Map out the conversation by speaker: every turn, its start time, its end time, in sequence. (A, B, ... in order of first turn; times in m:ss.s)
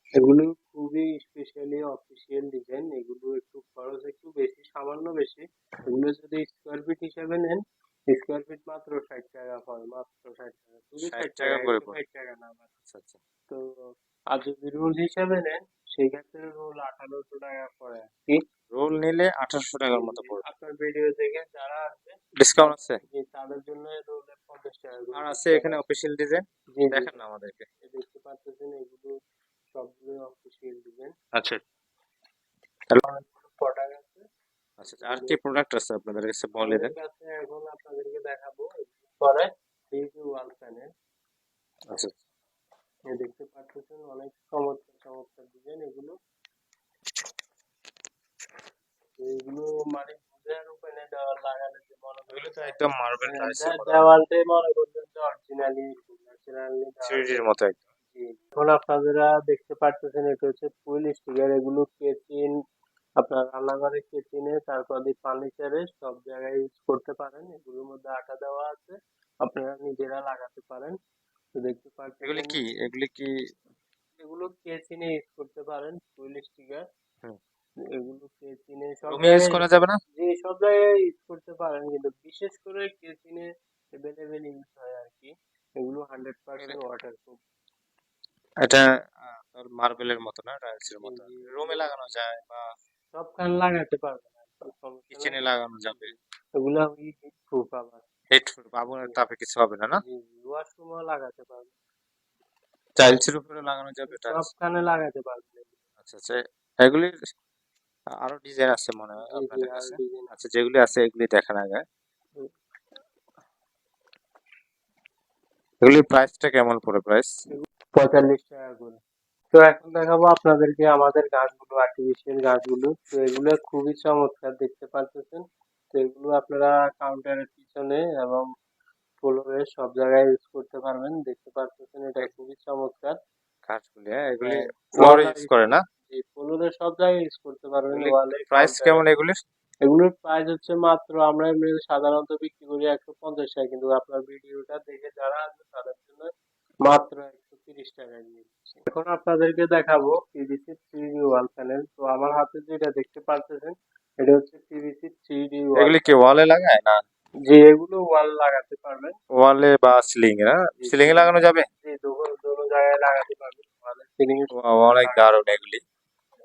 0:00.2-0:12.7 A
0:11.0-0:12.0 B
0:12.9-0:13.2 B
0:14.3-0:18.4 A
0:18.7-0:20.4 B
0:19.9-0:25.9 A
0:22.4-0:23.0 B
0:25.1-0:27.7 B
0:26.8-0:27.2 A
0:27.8-0:29.1 A
0:29.7-0:31.2 A
0:31.3-0:31.6 B
0:33.0-0:34.2 A
0:34.8-0:36.9 B
0:34.9-0:35.4 A
0:36.6-0:40.9 A
0:43.1-0:46.1 A
0:49.2-0:57.5 A
0:52.3-0:54.1 B
0:57.0-0:57.8 B
0:58.1-1:02.5 A
1:03.2-1:11.0 A
1:11.6-1:12.6 A
1:12.2-1:13.5 B
1:14.2-1:16.8 A
1:17.9-1:19.6 A
1:19.1-1:20.0 B
1:20.2-1:27.4 A
1:28.6-1:32.6 B
1:31.0-1:31.9 A
1:33.1-1:38.0 A
1:35.1-1:36.1 B
1:38.3-1:40.0 B
1:40.0-1:41.7 A
1:43.0-1:44.5 B
1:44.1-1:45.8 A
1:46.0-1:47.1 B
1:48.2-1:51.8 B
1:49.2-1:50.3 A
1:55.8-1:57.3 B
1:57.5-1:59.0 A
1:59.5-2:08.4 A
2:09.2-2:13.2 A
2:13.7-2:15.8 B
2:14.4-2:15.5 A
2:16.1-2:19.0 A
2:17.9-2:19.4 B
2:19.8-2:26.3 A
2:26.9-2:36.1 A
2:35.8-2:36.9 B
2:37.5-2:39.2 A
2:39.4-2:41.6 B
2:40.8-2:45.2 A
2:44.5-2:45.8 B